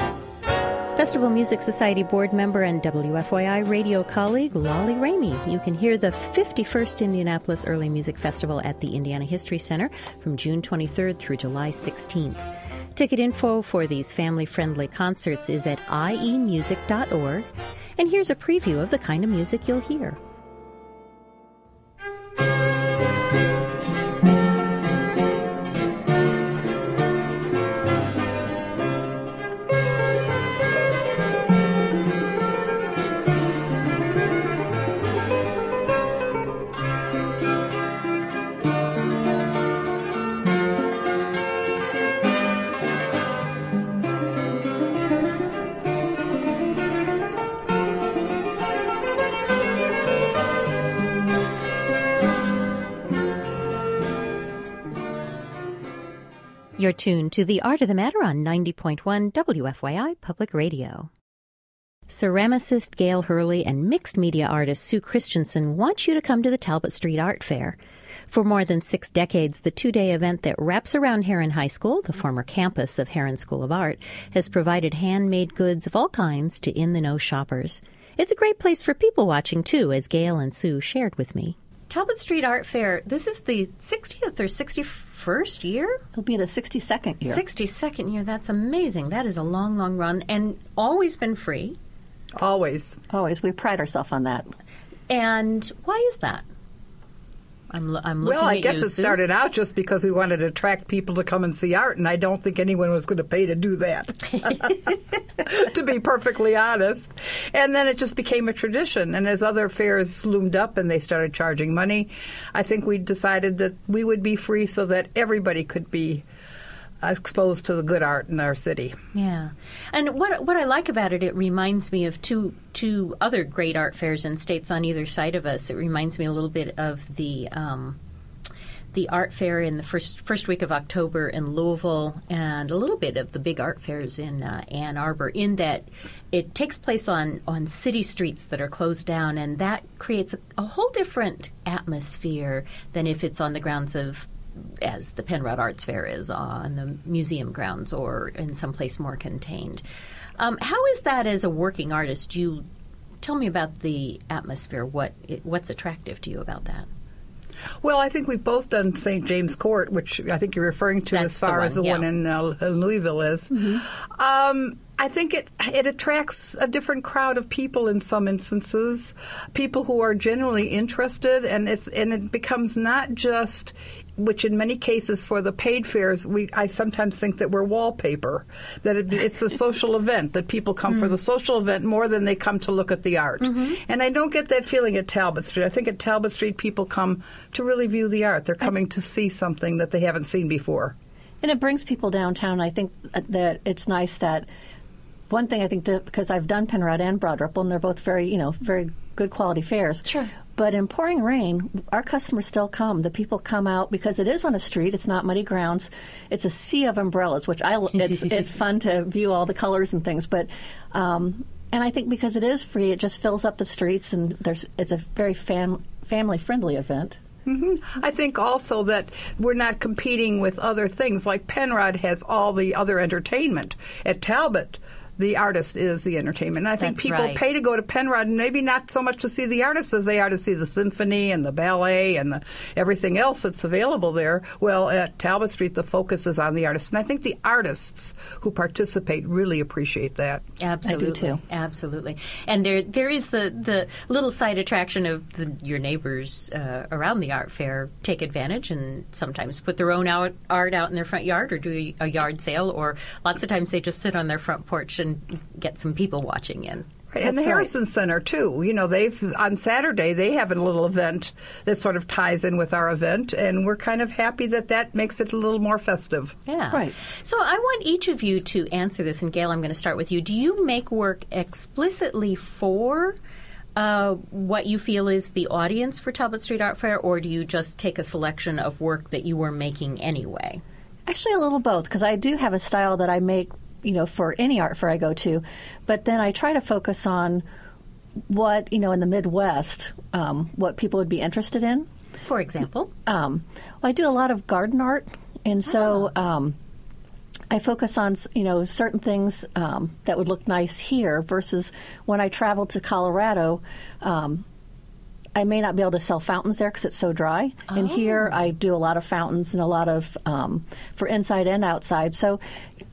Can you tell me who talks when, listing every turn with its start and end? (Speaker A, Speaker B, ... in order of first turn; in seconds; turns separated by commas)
Speaker A: 0.9-20.2, Speaker A: 56.8-61.1, Speaker A: 62.1-67.8, Speaker A: 68.3-86.0, Speaker B: 86.2-87.4, Speaker A: 87.2-91.8, Speaker C: 92.4-93.0, Speaker B: 93.1-94.5, Speaker A: 95.1-96.5, Speaker A: 97.7-99.2, Speaker C: 98.2-116.2, Speaker C: 117.0-118.9, Speaker A: 119.1-128.0, Speaker A: 128.9-149.8, Speaker A: 150.4-152.7, Speaker A: 153.2-156.9, Speaker C: 157.8-190.9, Speaker A: 161.1-162.1, Speaker A: 180.9-181.2, Speaker A: 183.4-183.8, Speaker B: 191.4-194.5, Speaker B: 195.3-217.2, Speaker A: 208.0-208.3, Speaker C: 217.4-240.4, Speaker A: 226.8-227.4, Speaker A: 240.6-256.9, Speaker B: 240.8-241.4, Speaker C: 257.1-266.3, Speaker A: 266.4-273.2, Speaker A: 273.8-280.6, Speaker B: 281.1-287.4, Speaker B: 288.3-291.9, Speaker A: 292.2-292.9, Speaker B: 293.1-296.6, Speaker B: 297.5-304.4, Speaker B: 305.4-312.4, Speaker A: 307.7-308.3